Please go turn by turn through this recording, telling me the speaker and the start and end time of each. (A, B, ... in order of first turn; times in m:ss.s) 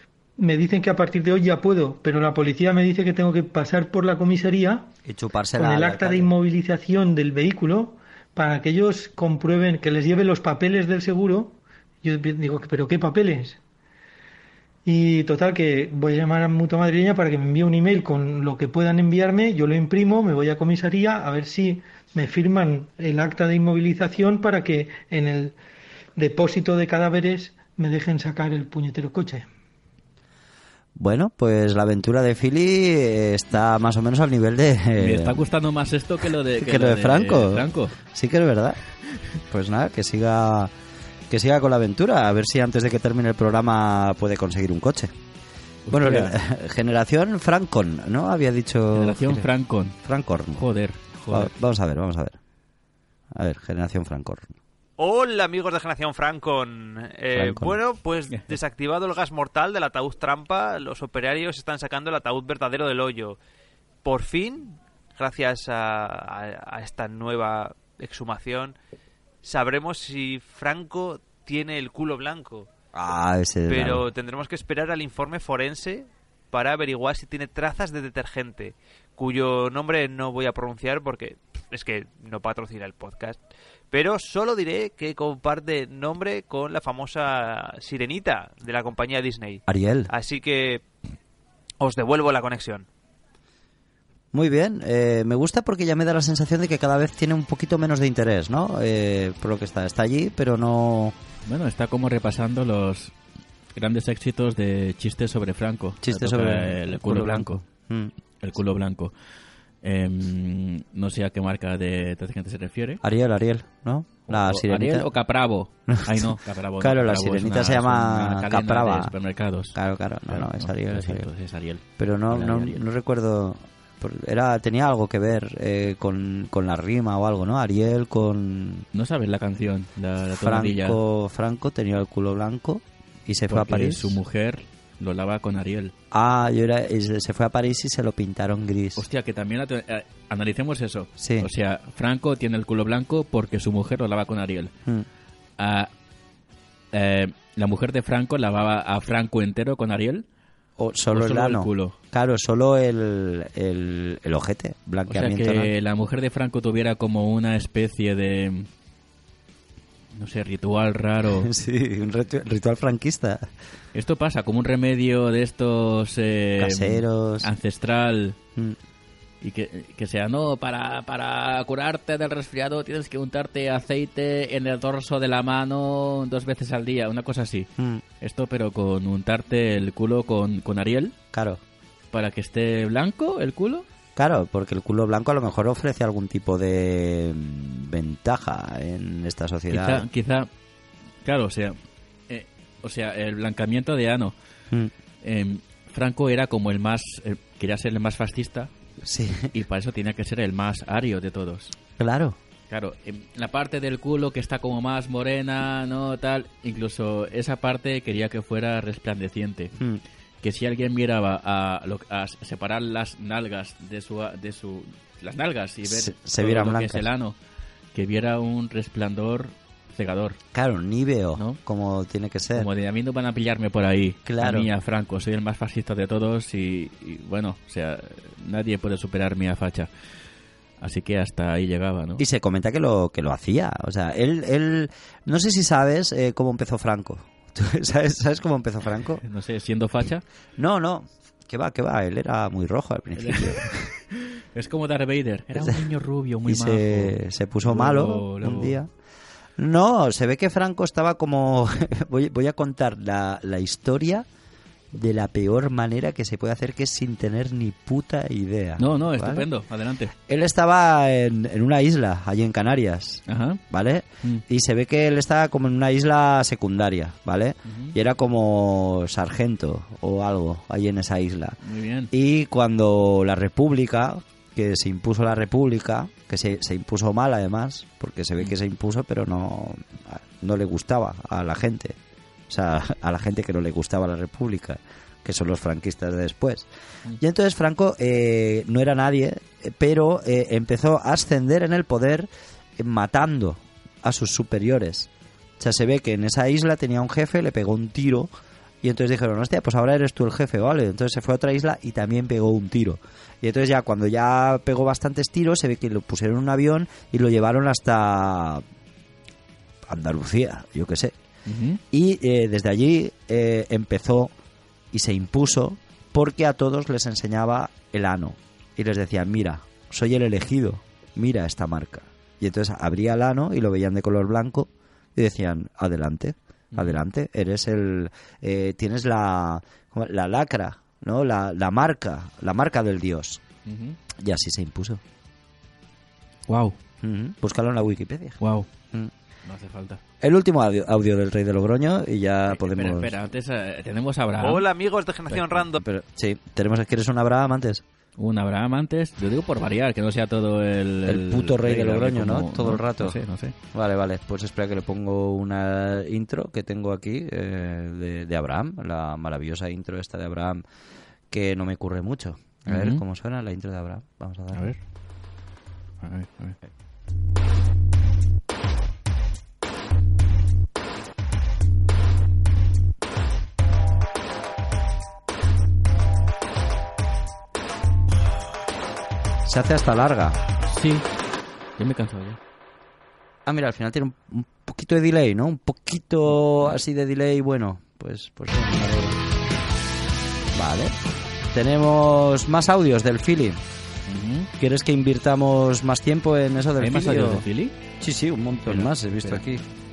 0:00.4-0:04.9 A
0:05.0-0:06.3 B
0:05.6-0:13.6 A
0:14.8-0:25.5 A
0:26.2-0:29.5 A
0:31.0-0:35.4 B
0:35.0-0:38.0 C
0:36.5-0:38.8 B
0:39.5-0:40.7 B
0:41.3-0:45.1 B
0:45.9-0:46.4 C
0:45.9-0:49.5 B
0:48.9-0:50.0 C
0:50.0-0:50.6 B
0:50.6-0:51.5 C
0:51.3-0:52.4 B
0:53.3-0:54.5 B
0:55.0-1:03.4 D
0:57.3-0:57.8 B
1:04.0-1:08.7 D
1:09.4-1:12.7 D
1:12.9-1:14.1 B
1:13.7-1:23.4 D
1:23.9-1:30.8 D
1:29.7-1:30.1 B
1:31.8-1:32.9 D
1:34.3-1:41.1 B
1:41.4-1:43.1 C
1:43.8-1:47.6 C
1:46.0-1:48.1 B
1:48.4-1:49.1 C
1:49.8-1:53.0 C
1:53.0-1:55.1 B
1:54.3-1:59.8 C
1:55.9-1:59.1 B
1:59.7-2:01.3 B
2:00.3-2:02.8 C
2:02.0-2:08.9 B
2:08.9-2:11.0 C
2:10.3-2:14.2 B
2:13.5-2:15.9 C
2:16.1-2:19.0 B
2:19.0-2:24.7 C
2:21.2-2:21.5 B
2:25.6-2:25.9 C
2:26.9-2:30.2 C
2:30.8-2:35.7 B
2:31.1-2:32.0 C
2:35.1-2:38.7 C
2:40.1-2:41.5 C
2:41.4-2:43.5 B
2:43.9-2:48.4 C
2:46.6-2:47.5 B
2:49.4-2:57.7 C
2:57.8-2:58.0 B
2:58.2-3:01.1 C
3:01.3-3:01.6 B
3:02.1-3:03.9 C
3:04.2-3:10.0 B
3:09.7-3:10.5 C
3:11.2-3:11.8 C
3:12.3-3:14.4 C
3:15.2-3:18.7 C
3:19.0-3:19.5 B
3:19.5-3:21.7 C
3:22.0-3:22.4 B
3:22.7-3:29.7 C
3:29.8-3:30.0 B
3:30.4-3:37.4 C
3:35.8-3:37.1 B
3:37.9-3:40.4 C
3:40.5-3:42.7 B
3:42.5-3:49.9 C
3:44.2-3:44.7 B
3:50.8-3:52.2 C
3:52.2-3:59.2 B
3:59.2-4:00.2 C
4:00.6-4:03.9 B
4:03.2-4:08.8 C
4:05.6-4:05.8 B
4:06.4-4:08.9 B
4:09.6-4:14.2 B
4:14.9-4:19.4 B
4:18.8-4:20.1 C
4:20.3-4:31.6 B
4:23.3-4:23.6 C
4:27.6-4:27.9 C
4:31.6-4:32.1 C
4:32.1-4:42.0 B
4:42.5-4:46.7 B
4:47.2-4:58.3 B
4:58.8-5:08.6 B
5:09.9-5:11.1 B
5:11.4-5:11.8 C
5:11.9-5:14.3 B
5:14.9-5:33.4 B
5:33.6-5:34.0 C
5:34.2-5:35.0 B
5:36.5-5:36.8 C
5:37.0-5:38.4 B
5:38.4-5:38.7 C
5:39.4-5:40.0 C
5:40.2-5:43.1 B
5:42.5-5:44.6 C
5:44.4-5:45.8 D
5:45.3-5:45.6 C
5:45.8-5:47.8 B
5:48.2-5:53.5 C
5:51.0-5:53.2 B
5:53.7-6:00.6 B
6:01.3-6:04.7 B
6:02.7-6:03.0 C
6:04.5-6:04.8 C
6:06.0-6:06.6 C
6:19.4-6:20.4 B
6:20.7-6:21.0 C
6:21.8-6:22.4 C
6:23.4-6:29.2 B
6:30.5-6:31.0 B
6:31.5-6:33.6 B
6:34.1-6:34.5 C
6:34.6-6:37.4 B
6:36.8-6:37.8 C
6:38.0-6:39.6 B
6:38.7-6:39.4 C